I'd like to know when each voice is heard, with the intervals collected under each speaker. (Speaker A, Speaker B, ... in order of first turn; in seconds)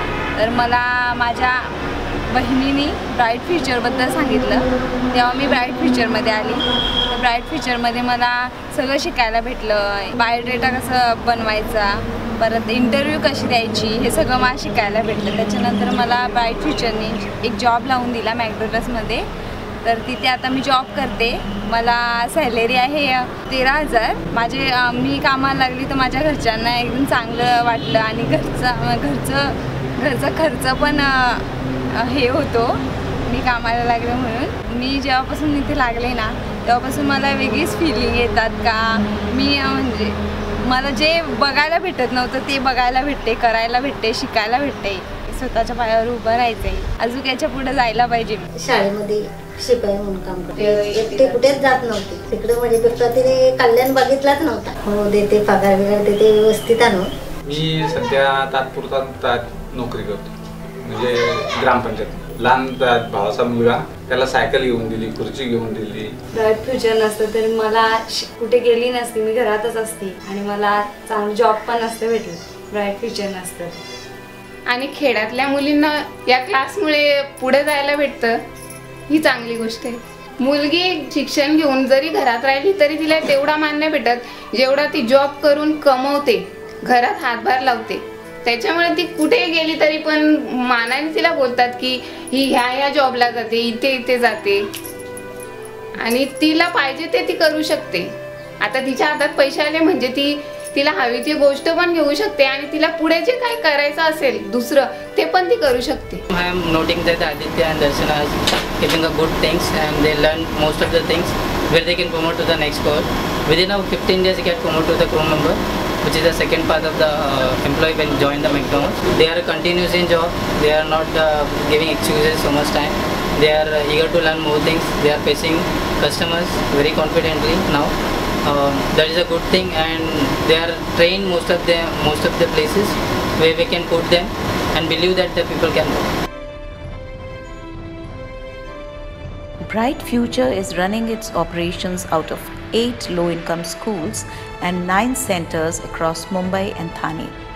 Speaker A: 0.3-1.7, 2.3-19.2, 19.8-48.5, 50.6-51.5, 66.3-73.8
Speaker B: 48.6-57.1
Speaker C: 57.4-60.3, 60.8-66.1
Speaker D: 74.7-78.4, 79.1-94.7, 96.0-106.2
Speaker E: 106.3-127.9, 128.4-136.0
Speaker F: 139.7-147.4